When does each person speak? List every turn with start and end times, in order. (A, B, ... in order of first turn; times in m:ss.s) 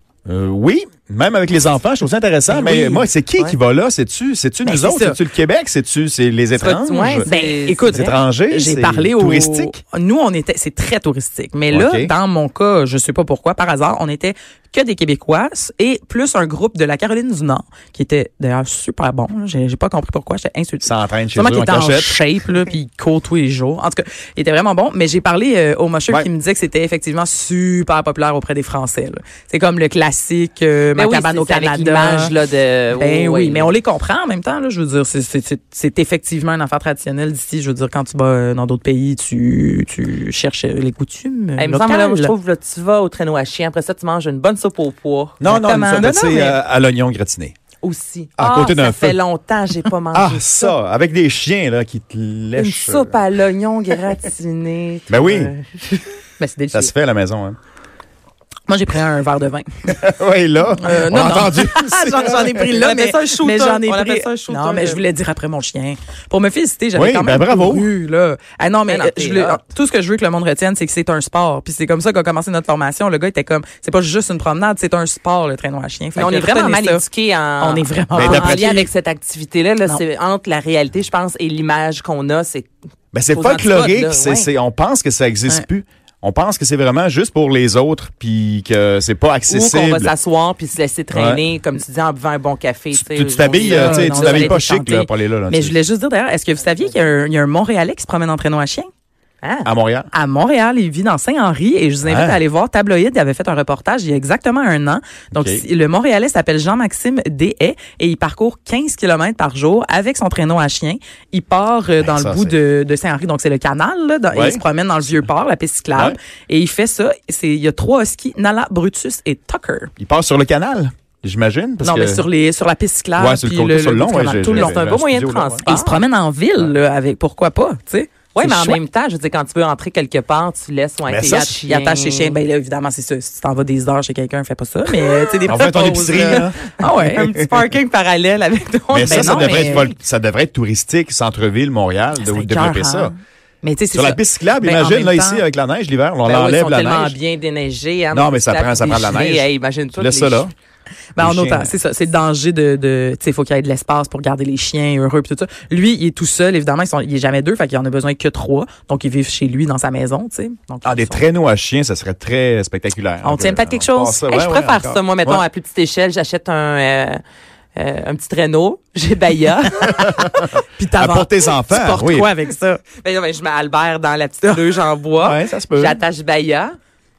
0:00.3-0:09.7 A
0:02.5-0:03.1 B
0:04.6-0:05.2 B
0:06.6-0:08.1 C
0:07.2-0:32.3 B
0:11.7-0:12.1 A
0:20.8-0:22.2 A
0:31.0-0:33.8 C
0:32.9-0:42.3 B
0:41.6-0:46.6 C
0:45.4-0:47.6 A
0:47.8-0:50.6 C
0:48.4-0:49.2 A
0:50.1-0:53.2 A
0:52.6-0:56.1 C
0:55.1-0:55.5 A
0:56.4-0:56.9 B
0:56.7-0:57.6 A
0:58.7-1:00.0 B
0:59.9-1:02.6 A
1:00.8-1:17.0 B
1:02.6-1:05.0 C
1:07.0-1:07.9 A
1:08.9-1:09.6 C
1:16.2-1:22.7 C
1:17.6-1:18.9 B
1:18.1-1:18.9 A
1:23.1-1:30.1 A
1:23.3-1:24.5 C
1:29.5-1:34.6 C
1:31.1-1:31.4 A
1:33.0-1:35.8 A
1:33.6-1:38.9 B
1:39.4-1:39.7 C
1:39.6-1:40.1 A
1:40.1-1:59.9 B
1:42.0-1:42.4 A
1:45.3-1:45.6 A
1:52.0-1:52.6 A
1:54.3-1:54.6 A
2:00.0-2:02.2 A
2:01.8-2:04.8 B
2:03.2-2:05.6 A
2:04.4-2:06.0 C
2:05.6-2:08.8 B
2:08.3-2:12.4 C
2:11.1-2:11.6 A
2:11.3-2:17.3 B
2:15.4-2:17.5 A
2:15.9-2:20.0 C
2:18.9-2:23.1 A
2:19.1-2:19.9 B
2:22.2-2:25.4 B
2:23.9-2:27.2 A
2:26.2-2:30.5 C
2:28.1-2:30.5 A
2:31.2-2:41.2 B
2:31.2-2:31.7 A
2:40.8-2:45.4 A
2:43.2-2:44.2 B
2:44.1-2:47.2 C
2:47.8-2:50.1 C
2:49.7-2:52.8 B
2:50.1-2:52.3 A
2:53.0-2:56.8 C
2:55.2-2:56.0 A